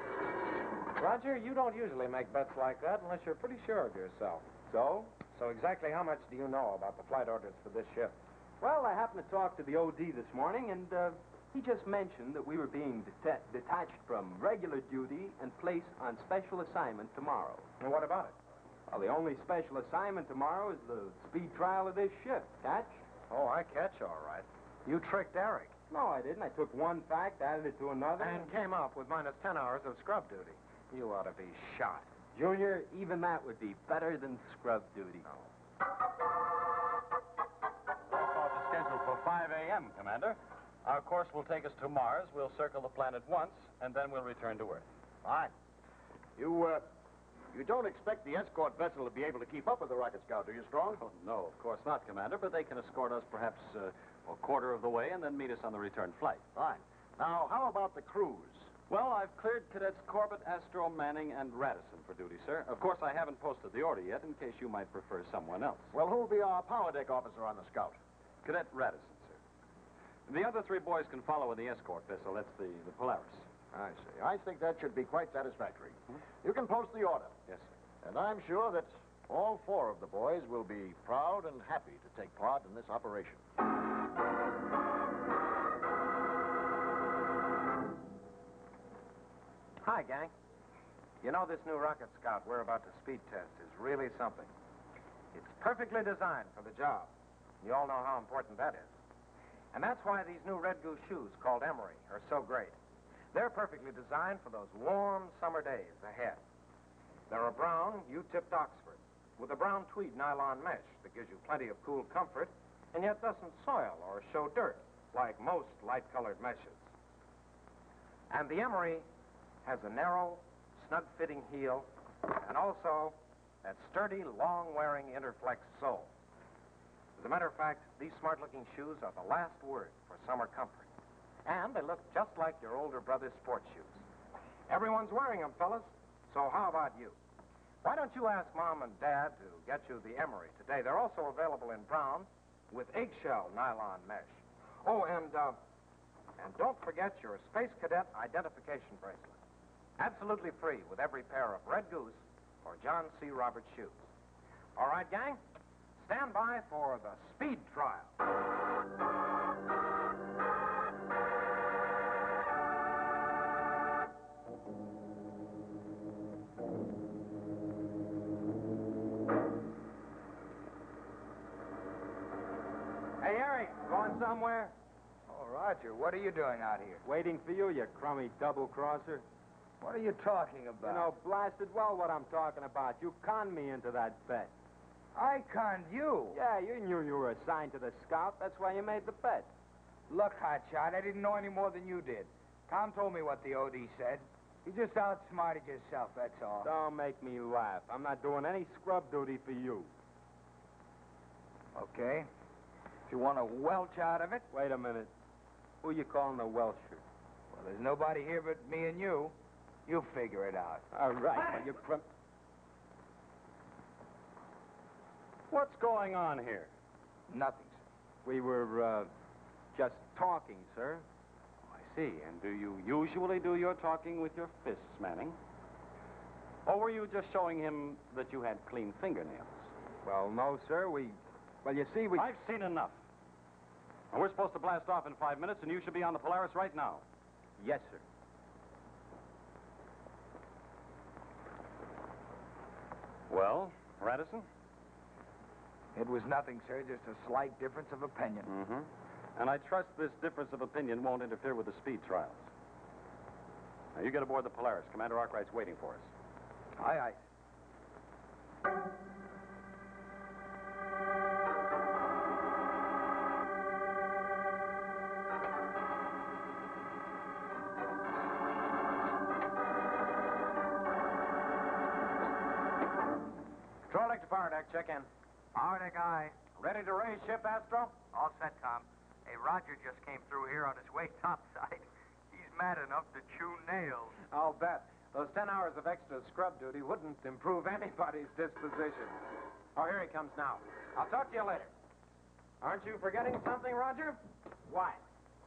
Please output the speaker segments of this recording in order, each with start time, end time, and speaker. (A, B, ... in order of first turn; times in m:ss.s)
0:01.0-0:04.4 A
0:04.7-0:05.1 B
0:05.3-0:08.2 A
0:08.6-0:17.7 B
0:17.8-0:18.4 A
0:18.9-0:23.0 B
0:23.3-0:25.7 A
0:25.9-0:28.5 B
0:28.2-0:32.1 A
0:32.3-0:35.3 B
0:38.1-0:44.9 C
0:45.2-0:45.5 D
0:46.4-0:46.9 D
0:47.5-0:51.0 D
0:51.0-0:56.4 C
0:56.6-0:58.7 D
0:58.9-1:05.9 C
1:05.9-1:08.0 D
1:08.4-1:09.4 C
1:10.3-1:13.4 C
1:13.7-1:17.3 D
1:18.0-1:23.4 D
1:29.8-1:30.3 A
1:31.2-1:34.5 A
1:35.3-1:37.1 A
1:37.6-1:38.9 A
1:39.7-1:42.8 A
1:43.3-1:46.4 A
1:47.3-1:56.8 A
1:58.3-1:59.1 A
1:59.6-2:06.1 A
2:07.2-2:10.9 A
2:11.5-2:14.0 A
2:14.7-2:17.2 A
2:17.8-2:25.6 A
2:26.4-2:29.4 A
2:30.0-2:34.0 A
2:34.8-2:35.4 A
2:36.0-2:38.1 A
2:53.2-2:54.7 B
2:55.3-2:57.0 E
2:57.0-2:59.2 B
2:59.8-3:01.1 E
3:00.8-3:04.5 B
3:05.2-3:06.4 E
3:06.3-3:09.5 B
3:10.1-3:16.7 E
3:16.6-3:19.9 B
3:21.8-3:22.3 E
3:23.1-3:24.5 E
3:24.5-3:25.1 B
3:25.8-3:27.0 B
3:27.5-3:29.3 E
3:29.9-3:30.8 E
3:30.9-3:32.0 B
3:35.5-3:36.7 C
3:37.3-3:37.8 E
3:38.2-3:39.1 B
3:39.7-3:41.0 B
3:41.7-3:45.4 C
3:46.6-3:49.7 C
3:50.0-3:52.3 B
3:52.2-3:52.9 C
3:54.1-3:57.0 C
3:57.6-3:58.0 B
4:03.3-4:04.5 C
4:06.0-4:08.5 E
4:08.5-4:12.4 C
4:14.0-4:16.1 C
4:16.8-4:17.2 E
4:33.9-4:35.1 A
4:35.5-4:36.4 F
4:36.6-4:37.9 A
4:38.1-4:44.2 F
4:44.3-4:49.2 A
4:49.8-4:51.7 A
4:52.6-4:55.0 A